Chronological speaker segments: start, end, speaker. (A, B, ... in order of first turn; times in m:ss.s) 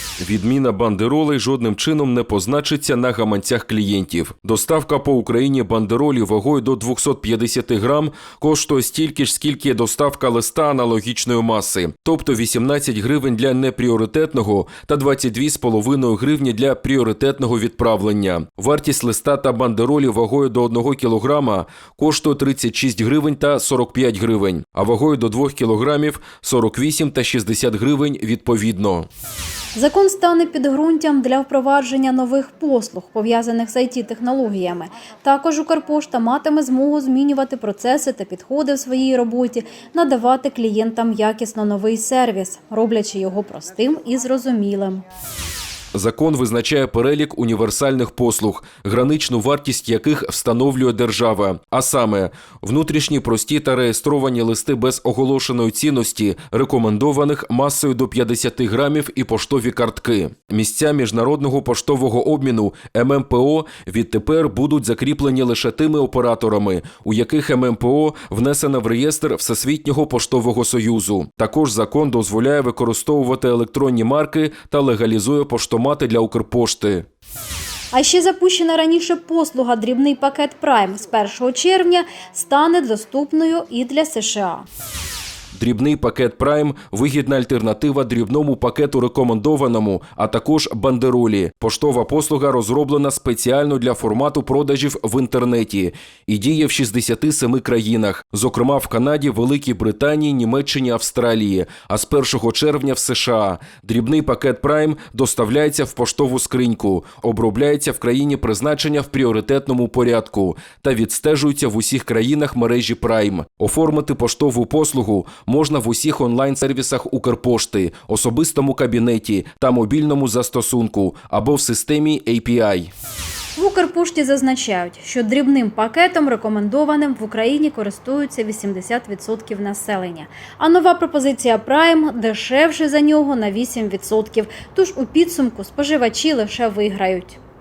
0:00.2-0:29.1 A
0:29.7-0:45.0 B
0:45.9-1:17.0 A
1:17.9-1:24.6 B
1:25.5-2:02.9 A
2:03.6-2:17.4 B